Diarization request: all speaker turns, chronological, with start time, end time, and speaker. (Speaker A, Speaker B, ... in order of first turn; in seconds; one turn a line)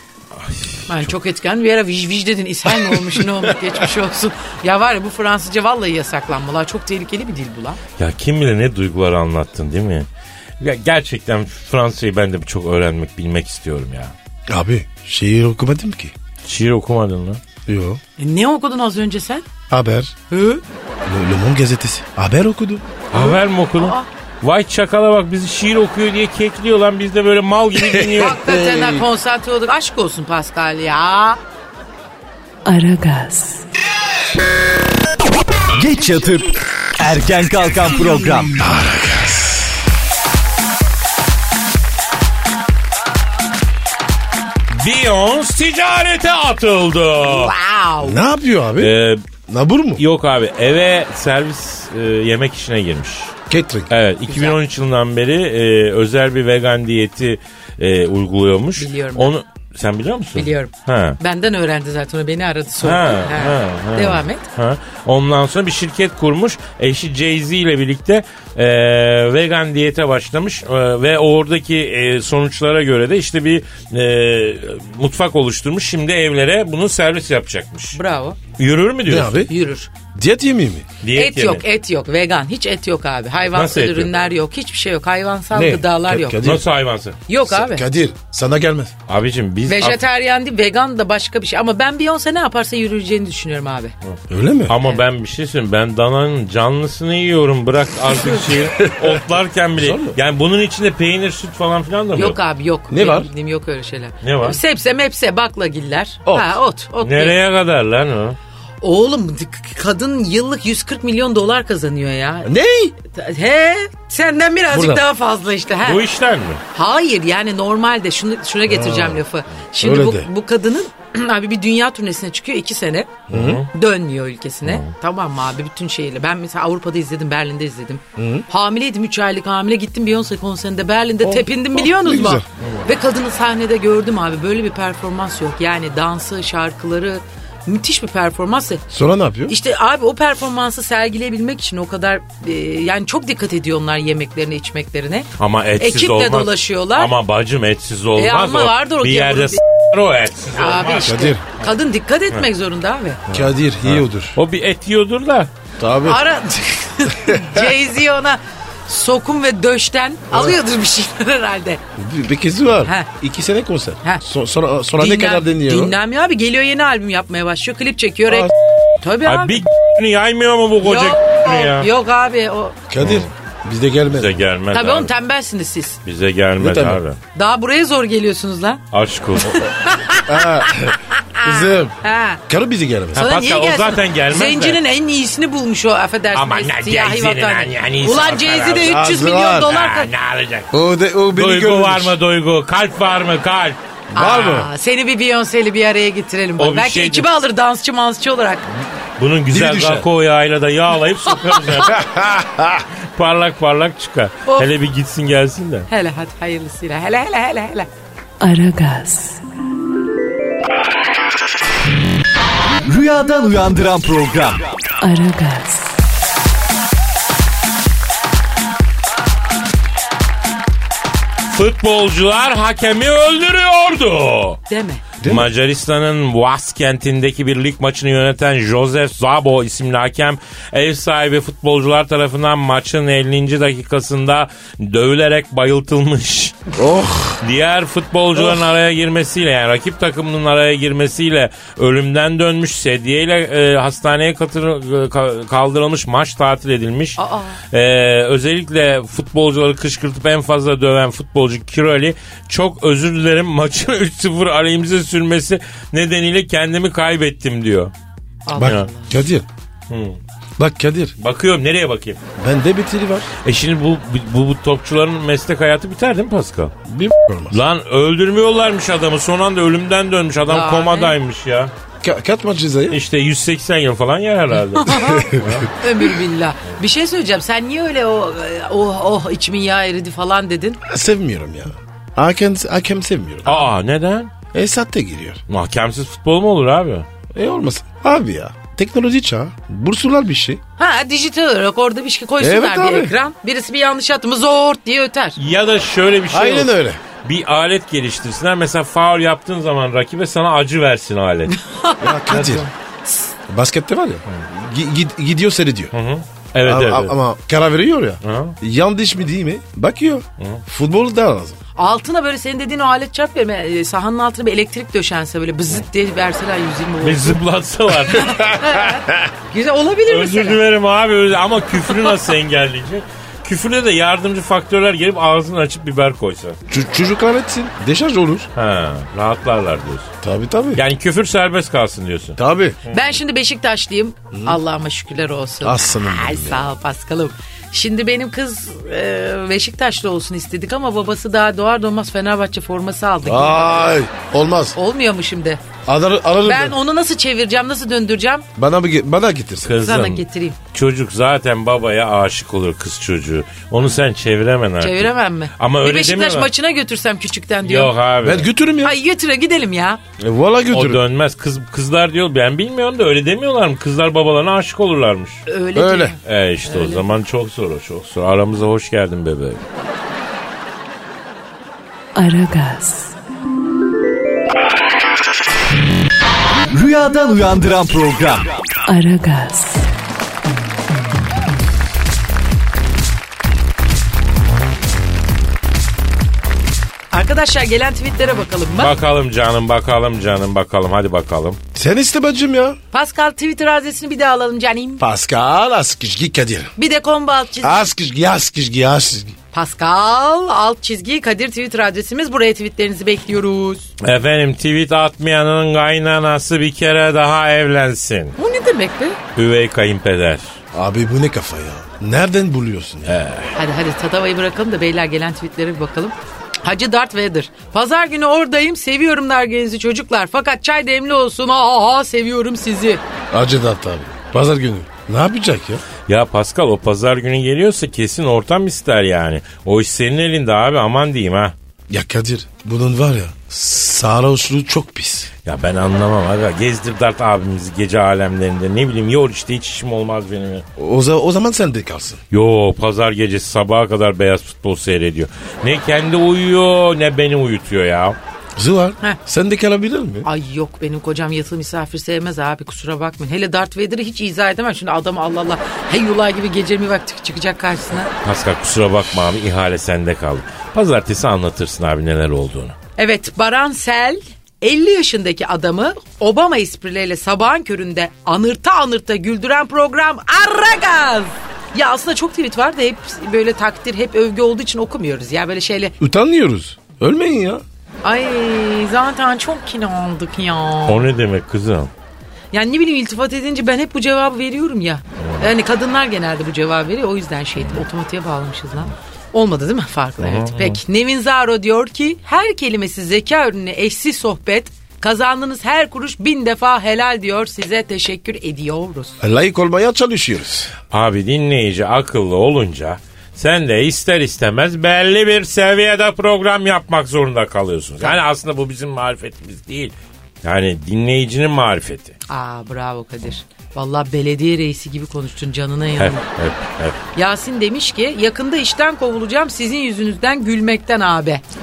Speaker A: 0.3-1.1
Speaker B: 0.9-7.8
Speaker A: 8.0-10.1
Speaker A: 10.6-14.1
Speaker C: 14.5-16.1
Speaker A: 16.4-17.4
Speaker C: 17.7-18.0
Speaker B: 18.2-19.5
Speaker C: 19.7-20.1
Speaker B: 20.3-20.6
Speaker C: 21.0-22.9
Speaker A: 23.1-28.4
Speaker B: 23.1-24.1
Speaker B: 27.9-31.4
Speaker C: 28.0-29.1
Speaker D: 32.6-33.7
Speaker E: 35.8-38.6
Speaker C: 38.6-39.7
Speaker A: 44.7-47.5
Speaker B: 47.2-48.2
Speaker C: 48.0-50.0
Speaker A: 48.8-49.3
Speaker A: 50.0-53.4
Speaker C: 53.5-53.9
Speaker A: 53.9-61.2
Speaker B: 54.3-54.6
Speaker B: 58.8-59.4
Speaker B: 60.4-64.5
Speaker A: 62.8-78.0
Speaker B: 77.9-78.4
Speaker A: 78.6-79.5
Speaker C: 79.1-79.5
Speaker B: 79.5-79.9
Speaker C: 80.1-80.9
Speaker A: 81.0-81.6
Speaker B: 81.1-86.5
Speaker A: 83.5-84.1
Speaker C: 85.5-86.7
Speaker A: 86.4-87.2
Speaker B: 87.3-87.8
Speaker C: 87.5-88.9
Speaker A: 89.1-90.0
Speaker B: 89.7-93.9
Speaker A: 94.0-102.4
Speaker C: 94.3-94.8
Speaker C: 99.8-100.2
Speaker B: 102.2-107.4
Speaker C: 102.9-103.3
Speaker A: 104.2-104.6
Speaker A: 107.0-108.4
Speaker B: 108.8-112.5
Speaker C: 112.4-113.0
Speaker B: 113.0-116.0
Speaker C: 114.7-115.0
Speaker A: 115.8-116.6
Speaker B: 116.7-123.2
Speaker C: 118.7-119.2
Speaker C: 119.8-120.3
Speaker C: 123.3-123.6
Speaker A: 123.3-123.7
Speaker B: 123.7-138.8
Speaker C: 128.2-128.5
Speaker C: 131.2-132.5
Speaker C: 138.9-139.6
Speaker B: 139.5-147.1
Speaker A: 145.4-151.7
Speaker B: 148.2-149.6
Speaker B: 150.6-153.2
Speaker C: 151.0-151.4
Speaker A: 153.3-155.5
Speaker C: 153.3-154.4
Speaker C: 155.8-156.2
Speaker B: 156.1-161.8
Speaker C: 162.0-166.0
Speaker B: 162.8-163.1
Speaker B: 165.0-169.7
Speaker C: 168.3-168.5
Speaker A: 169.2-171.9
Speaker B: 170.8-172.8
Speaker C: 172.9-174.4
Speaker A: 173.0-173.3
Speaker A: 174.1-175.1
Speaker B: 174.7-176.0
Speaker A: 176.1-177.2
Speaker C: 176.6-177.0
Speaker B: 177.3-178.8
Speaker A: 178.9-179.7
Speaker B: 179.4-182.4
Speaker C: 180.3-183.2
Speaker A: 183.2-184.8
Speaker B: 183.2-190.1
Speaker A: 186.3-189.0
Speaker C: 188.8-189.7
Speaker A: 189.7-190.7
Speaker C: 190.7-192.2
Speaker A: 191.3-193.8
Speaker C: 194.1-194.7
Speaker B: 194.2-198.7
Speaker A: 196.6-197.3
Speaker A: 199.2-202.1
Speaker C: 199.5-200.1
Speaker B: 201.6-201.8
Speaker C: 201.9-202.8
Speaker A: 203.2-205.9
Speaker B: 205.9-207.9
Speaker D: 208.4-209.4
Speaker E: 212.8-214.6
Speaker D: 215.0-216.0
Speaker A: 221.5-224.6
Speaker B: 224.7-225.1
Speaker C: 225.2-225.5
Speaker A: 225.2-236.6
Speaker C: 236.8-237.4
Speaker A: 237.4-247.2
Speaker B: 247.2-247.6
Speaker A: 247.7-257.9
Speaker B: 258.5-259.2
Speaker C: 258.6-259.5
Speaker A: 258.6-258.9
Speaker A: 259.9-260.2
Speaker C: 260.6-261.1
Speaker A: 261.2-262.2
Speaker C: 262.4-263.3
Speaker A: 263.4-266.8
Speaker C: 266.9-267.6
Speaker A: 267.5-271.7
Speaker B: 270.5-271.1
Speaker C: 272.0-273.0
Speaker A: 272.9-275.7
Speaker B: 274.8-280.8
Speaker C: 274.9-275.7
Speaker C: 280.8-283.6
Speaker A: 283.4-284.3
Speaker C: 284.5-285.4
Speaker A: 285.5-287.1
Speaker C: 287.3-290.6
Speaker B: 290.8-295.4
Speaker C: 292.4-293.1
Speaker A: 295.4-296.7
Speaker C: 296.3-297.0
Speaker A: 297.2-301.6
Speaker B: 301.5-302.4
Speaker C: 302.0-302.7
Speaker A: 302.3-302.7
Speaker C: 303.5-305.9
Speaker A: 305.9-307.1
Speaker C: 306.6-311.6
Speaker A: 308.2-308.6
Speaker B: 311.8-317.4
Speaker A: 317.0-318.7
Speaker B: 318.1-320.6
Speaker A: 320.1-326.6
Speaker C: 326.7-328.5
Speaker A: 328.6-330.1
Speaker C: 330.2-330.8
Speaker A: 330.8-333.2
Speaker C: 332.4-332.8
Speaker B: 332.9-344.0
Speaker C: 334.3-334.6
Speaker C: 335.6-336.7
Speaker C: 343.2-344.8
Speaker B: 344.8-345.6
Speaker C: 345.9-346.8
Speaker B: 346.4-348.5
Speaker C: 348.6-349.9
Speaker A: 349.6-356.5
Speaker B: 349.8-350.6
Speaker B: 354.8-357.9
Speaker A: 357.6-358.5
Speaker C: 358.2-358.9
Speaker B: 358.8-360.0
Speaker C: 360.2-361.0
Speaker A: 360.7-365.4
Speaker B: 365.5-367.0
Speaker C: 365.8-366.2
Speaker A: 366.2-369.6
Speaker D: 372.1-373.1
Speaker E: 376.7-378.5
Speaker D: 378.9-379.9
Speaker B: 387.1-388.9
Speaker A: 388.8-391.6
Speaker C: 391.7-392.8
Speaker B: 392.9-395.0
Speaker C: 395.0-396.7
Speaker B: 396.8-397.9
Speaker C: 397.6-399.4
Speaker B: 399.5-403.9
Speaker A: 404.0-408.4
Speaker B: 408.4-409.2
Speaker A: 409.4-410.6
Speaker C: 410.7-413.2
Speaker A: 413.1-413.5
Speaker B: 413.5-423.0
Speaker C: 423.3-425.8
Speaker A: 426.1-431.5
Speaker C: 431.9-435.3
Speaker A: 435.4-440.7
Speaker C: 440.8-442.2
Speaker A: 442.3-448.2
Speaker C: 448.6-450.3
Speaker B: 450.2-458.1
Speaker A: 458.2-462.8
Speaker B: 463.0-475.9
Speaker C: 476.0-477.6
Speaker B: 478.0-481.1
Speaker A: 480.9-481.9
Speaker B: 482.5-499.2
Speaker A: 485.2-485.5
Speaker A: 490.2-490.8
Speaker C: 499.2-500.7
Speaker A: 500.9-512.2
Speaker B: 512.3-516.3
Speaker A: 516.0-517.0
Speaker B: 517.2-521.4